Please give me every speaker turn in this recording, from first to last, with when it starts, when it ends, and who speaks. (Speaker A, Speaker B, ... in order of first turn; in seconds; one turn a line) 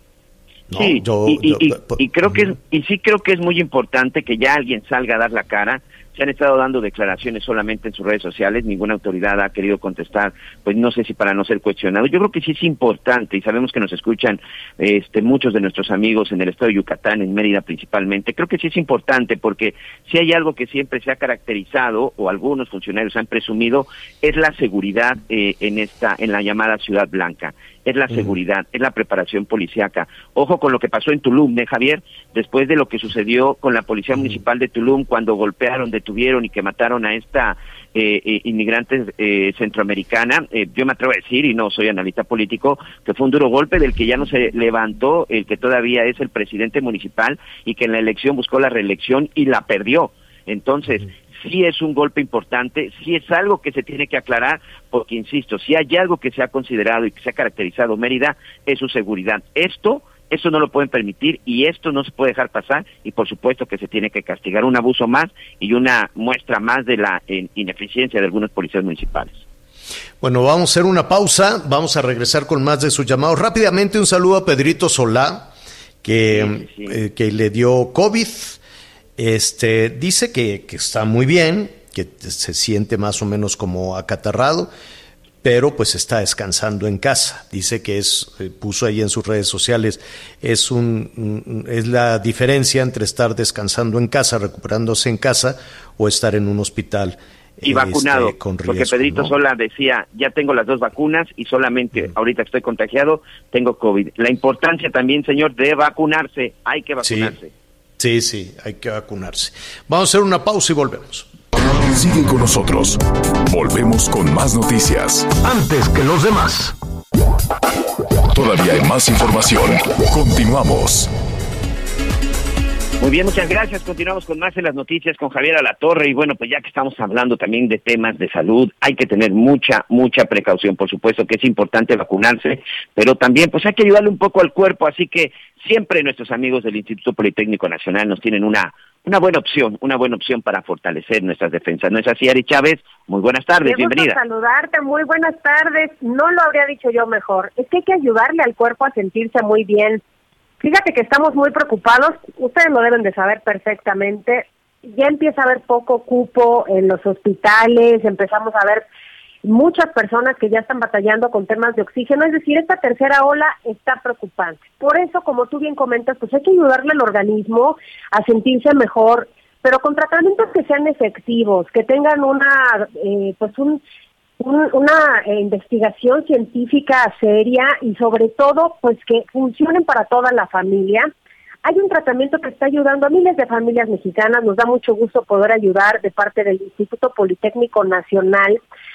Speaker A: 0.7-2.5
Speaker B: 0.7-69.4
Speaker A: 28.1-28.4
Speaker A: 70.2-75.5
Speaker A: 76.0-78.6
Speaker B: 76.3-76.9
Speaker A: 79.2-84.7
Speaker A: 85.4-99.3
Speaker B: 97.6-107.5
Speaker A: 107.0-107.4
Speaker A: 108.0-111.3
Speaker C: 111.9-115.3
Speaker A: 115.4-116.7
Speaker C: 118.3-121.1
Speaker B: 123.0-144.2
Speaker D: 143.6-150.0
Speaker D: 150.6-158.8
Speaker D: 159.4-173.8
Speaker D: 174.4-181.1
Speaker D: 181.6-188.6